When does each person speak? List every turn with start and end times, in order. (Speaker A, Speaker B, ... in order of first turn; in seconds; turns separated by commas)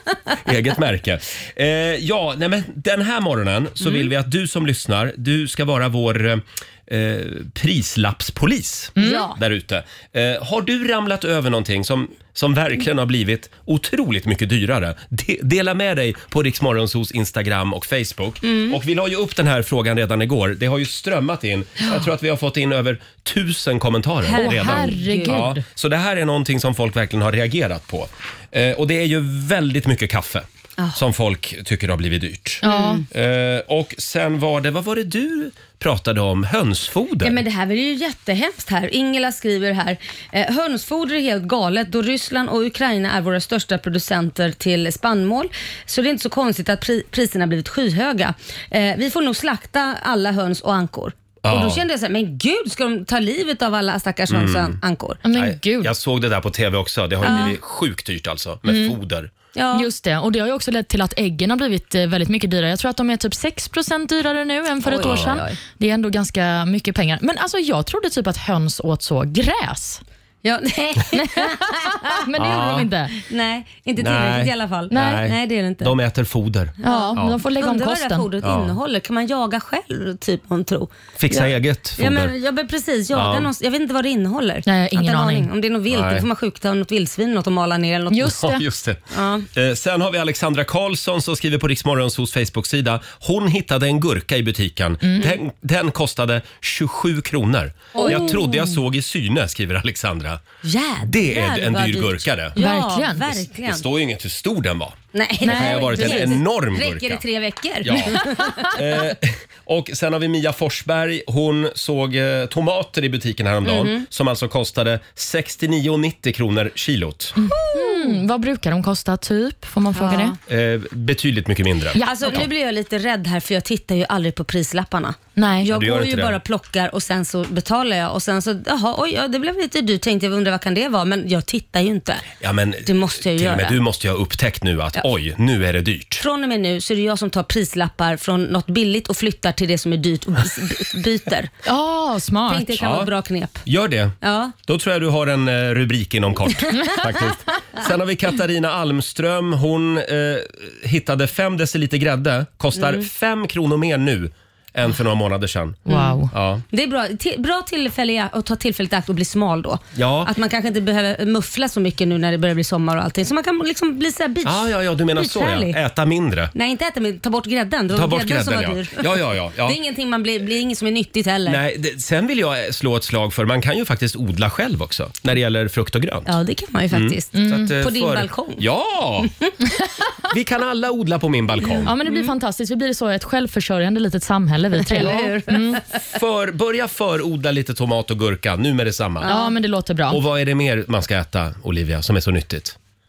Speaker A: 0.4-37.4, Speaker B: 3.8-4.1, Speaker C: 9.0-9.3, Speaker B: 9.0-9.4, Speaker B: 18.4-18.8, Speaker B: 24.2-25.5, Speaker C: 24.4-25.6, Speaker C: 32.6-33.0, Speaker B: 32.6-33.0, Speaker B: 37.2-55.2, Speaker A: 51.4-51.8, Speaker A: 54.3-54.8, Speaker C: 55.2-55.9, Speaker A: 55.3-59.3, Speaker B: 57.2-57.6, Speaker C: 57.2-57.5, Speaker C: 58.7-59.0, Speaker B: 59.5-59.9, Speaker C: 59.7-70.0, Speaker B: 64.8-65.6, Speaker A: 65.0-65.4, Speaker B: 70.4-72.2, Speaker C: 71.2-73.2, Speaker A: 72.4-72.9, Speaker B: 73.2-76.0, Speaker A: 74.0-77.4, Speaker C: 74.9-75.2, Speaker B: 76.8-88.4, Speaker C: 76.8-78.3, Speaker A: 78.4-78.7, Speaker A: 81.2-82.3, Speaker A: 83.1-83.5, Speaker C: 84.7-85.5, Speaker A: 85.9-86.3, Speaker C: 88.1-88.6, Speaker A: 88.3-89.0, Speaker B: 89.1-89.5, Speaker A: 89.5-100.4, Speaker C: 95.0-95.3, Speaker B: 98.0-98.5, Speaker C: 98.0-98.7, Speaker B: 100.6-103.8, Speaker A: 101.0-102.6, Speaker C: 102.6-103.3, Speaker A: 103.6-107.2, Speaker B: 105.1-109.0, Speaker C: 105.4-106.3, Speaker A: 107.8-117.3, Speaker B: 113.6-114.0, Speaker C: 117.4-120.4, Speaker B: 117.5-118.2, Speaker B: 120.0-120.4, Speaker A: 120.5-122.5, Speaker C: 122.0-122.3, Speaker B: 122.0-133.8, Speaker C: 125.4-125.7, Speaker A: 125.7-126.4, Speaker A: 132.4-136.2, Speaker B: 136.2-141.5, Speaker C: 141.7-142.8, Speaker B: 142.5-143.6, Speaker A: 142.8-143.1, Speaker A: 143.7-156.6, Speaker B: 144.2-144.6, Speaker B: 152.8-153.1, Speaker C: 155.9-156.3, Speaker B: 155.9-156.2, Speaker B: 156.7-165.8, Speaker A: 160.0-160.3, Speaker A: 164.4-166.5, Speaker B: 166.5-171.6, Speaker A: 167.9-169.8, Speaker A: 171.5-176.3, Speaker B: 176.3-178.7, Speaker A: 176.9-179.3, Speaker C: 177.3-177.7, Speaker A: 180.3-181.9, Speaker B: 181.7-182.3, Speaker C: 181.8-185.8, Speaker B: 184.8-185.9, Speaker A: 186.1-189.3, Speaker B: 189.2-189.5, Speaker C: 189.3-190.2, Speaker A: 190.1-192.8